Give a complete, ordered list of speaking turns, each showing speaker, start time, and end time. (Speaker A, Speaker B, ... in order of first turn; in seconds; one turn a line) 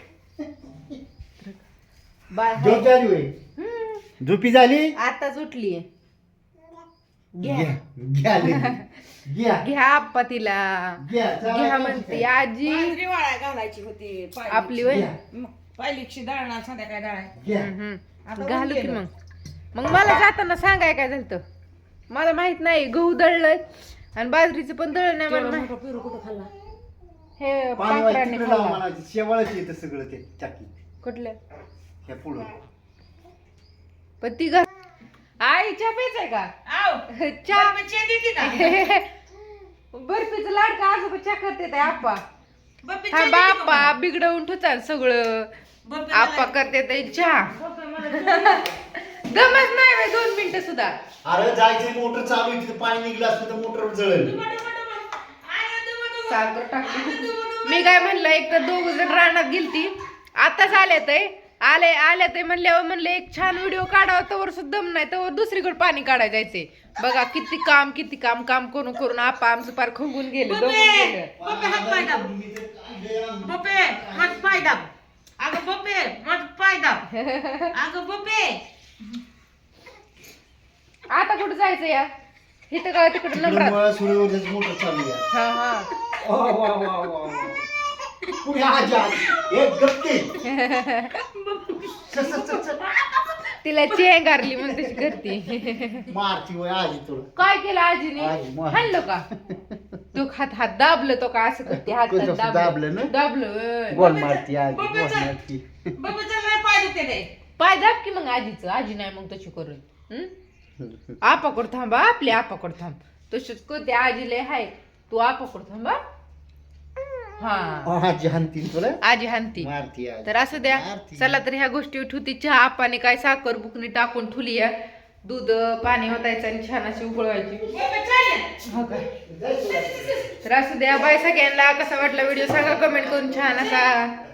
Speaker A: 0.4-1.0
Speaker B: 2.3-2.9
Speaker A: 2.6-3.3
Speaker B: 3.6-4.0
Speaker A: 4.2-5.0
Speaker B: 5.0-5.9
Speaker A: 7.3-9.7
Speaker B: 7.4-7.8
Speaker B: 8.4-8.9
Speaker B: 9.6-13.0
Speaker A: 11.0-12.3
Speaker C: 12.6-17.3
Speaker B: 14.5-15.1
Speaker A: 14.8-15.2
Speaker A: 17.4-17.7
Speaker B: 17.6-19.1
Speaker C: 18.2-19.0
Speaker B: 19.8-21.4
Speaker B: 22.1-25.7
Speaker C: 25.3-26.5
Speaker B: 27.4-28.8
Speaker A: 27.8-30.7
Speaker B: 31.0-31.4
Speaker A: 32.0-32.6
Speaker B: 34.2-34.7
Speaker B: 35.4-36.5
Speaker C: 36.6-38.9
Speaker B: 37.1-37.8
Speaker B: 38.4-39.1
Speaker B: 39.9-42.2
Speaker C: 42.8-43.9
Speaker B: 43.1-45.5
Speaker C: 45.9-46.6
Speaker B: 46.1-47.5
Speaker C: 47.5-48.7
Speaker B: 48.1-50.9
Speaker A: 51.2-54.4
Speaker C: 54.2-59.1
Speaker B: 56.3-71.3
Speaker C: 70.5-72.3
Speaker A: 71.4-74.7
Speaker C: 73.4-77.1
Speaker B: 77.1-77.8
Speaker C: 77.7-79.2
Speaker B: 81.1-82.1
Speaker B: 82.7-83.8
Speaker A: 83.3-85.2
Speaker B: 85.3-85.9
Speaker A: 86.2-87.7
Speaker A: 88.4-90.3
Speaker B: 90.4-91.2
Speaker C: 91.2-93.5
Speaker A: 92.1-92.9
Speaker B: 93.6-96.1
Speaker A: 94.8-95.2
Speaker A: 96.1-97.3
Speaker B: 97.4-99.3
Speaker A: 98.2-100.0
Speaker B: 100.1-104.1
Speaker A: 101.7-103.1
Speaker A: 103.9-105.9
Speaker C: 103.9-105.3
Speaker C: 106.0-107.3
Speaker B: 107.6-110.3
Speaker A: 110.8-111.2
Speaker B: 111.2-116.0
Speaker B: 117.4-117.9
Speaker A: 117.8-119.0
Speaker B: 119.0-119.7
Speaker A: 119.6-121.4
Speaker B: 120.2-127.7
Speaker C: 127.7-128.7
Speaker B: 128.7-129.1
Speaker A: 129.2-130.3
Speaker B: 130.4-134.2
Speaker A: 132.8-133.8